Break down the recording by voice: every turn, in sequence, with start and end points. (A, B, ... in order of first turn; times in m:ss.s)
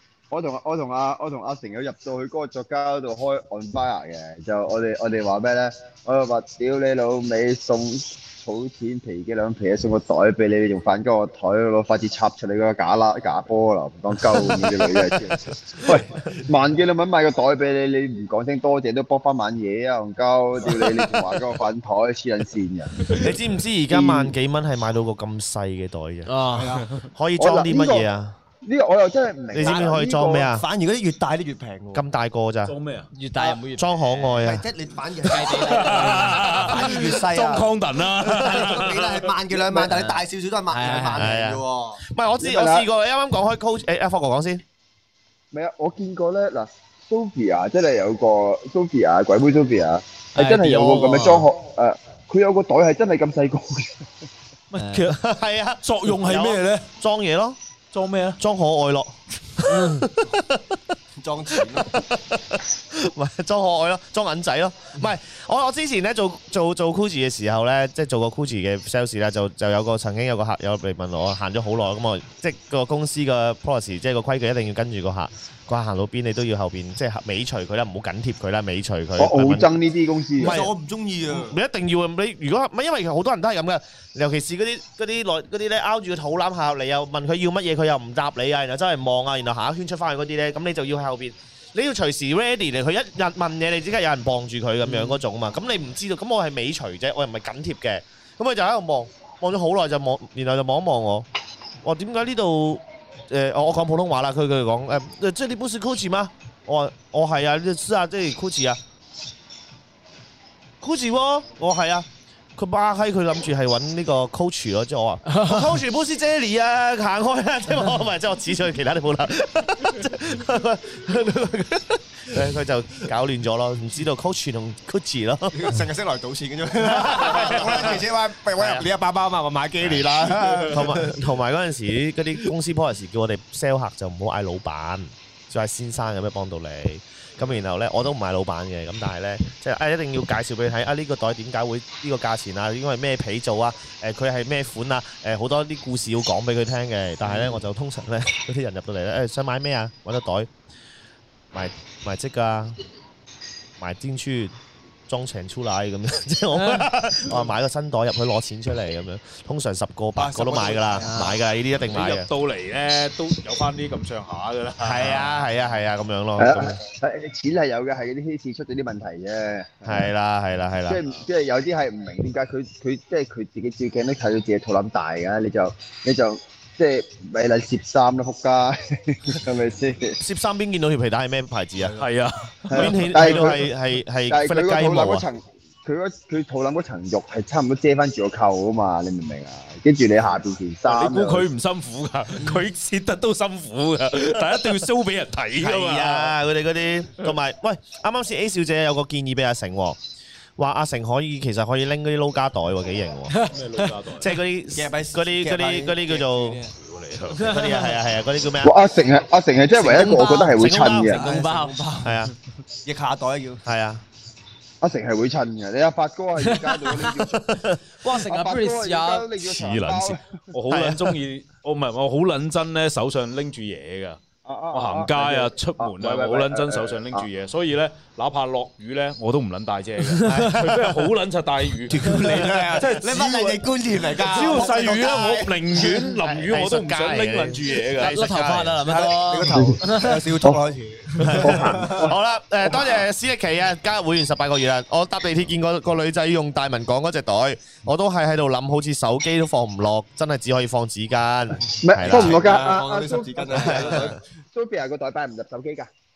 0:00.3-0:23.0 A
0:23.2-0:26.3 B
0:23.9-0:24.4 A
0:26.3-0:26.8 C
0:26.5-0:26.9 D
0:27.1-0:28.4 B
0:27.4-0:28.1 A
0:28.6-0:30.5 A
0:29.5-0:30.6 B
0:29.6-0:30.0 D
0:30.5-0:32.1 D
0:31.9-0:32.7 B
0:32.7-0:33.1 E
0:33.1-0:34.3 C
0:33.7-0:34.6 B
0:34.3-0:42.0 D
0:35.2-0:36.6 C
0:35.4-0:39.3 E
0:39.8-0:40.2 C
0:40.7-0:41.4 C
0:41.2-0:44.6 B
0:42.4-0:42.9 A
0:45.5-0:54.1 A
0:50.4-0:51.5 C
0:54.7-0:55.2 E
0:55.0-0:57.6 B
0:55.8-0:56.9 E
0:57.9-0:58.4 E
0:58.4-1:00.6 B
0:59.7-1:00.0 C
1:01.2-1:02.0 D
1:01.6-1:19.7 B
1:19.2-1:20.6 A
1:20.4-1:21.6 D
1:20.4-1:20.7 B
1:21.3-1:41.3 B
1:34.9-1:35.2 C
1:41.8-1:48.8 B
1:50.8-1:52.1 B
1:52.6-2:05.8 B
1:55.3-1:55.7 C
2:05.5-2:11.2 D
2:06.9-2:08.0 B
2:08.6-2:08.9 B
2:09.8-2:30.5 B
2:27.3-2:27.5 E
2:31.5-2:32.8 B
2:33.8-2:34.5 B
2:35.1-2:42.3 B
2:40.2-2:41.4 D
2:41.1-2:41.4 C
2:41.8-2:45.5 E
2:44.8-2:46.8 B
2:46.4-2:50.1 A
2:49.9-2:51.0 B
2:50.9-3:00.2 A
3:00.2-3:02.0 B
3:02.0-3:03.5 E
3:02.7-3:03.7 A
3:02.8-3:05.2 B
3:04.3-3:11.5 A
3:10.9-3:16.4 E
3:15.6-3:20.0 B
3:20.6-3:23.3 B
3:23.3-3:23.6 C
3:23.5-3:24.3 E
3:24.1-3:26.6 B
3:24.7-3:26.7 D
3:26.8-3:27.6 E
3:27.3-3:28.0 C
3:27.4-3:28.8 B
3:28.6-3:31.2 A
3:29.8-3:31.2 B
3:30.0-3:31.8 C
3:31.1-3:32.3 D
3:32.0-3:32.3 B
3:32.8-3:33.6 D
3:33.6-3:34.0 B
3:34.8-3:37.5 A
3:36.4-3:37.2 C
3:37.4-3:37.8 B
3:38.0-3:39.3 C
3:38.2-3:40.4 A
3:39.4-3:44.2 E
3:40.7-3:41.1 B
3:44.4-3:47.3 A
3:44.7-3:53.6 E
3:50.1-3:50.6 C
3:50.3-3:51.1 B
3:51.9-3:55.8 D
3:54.1-3:58.2 E
3:56.2-3:58.8 B
3:58.0-4:00.3 C
3:58.8-4:02.1 D
3:59.5-3:59.8 A
4:01.2-4:12.4 B
4:01.3-4:03.0 A
4:11.8-4:15.9 A
4:12.0-4:14.1 D
4:13.5-4:14.1 B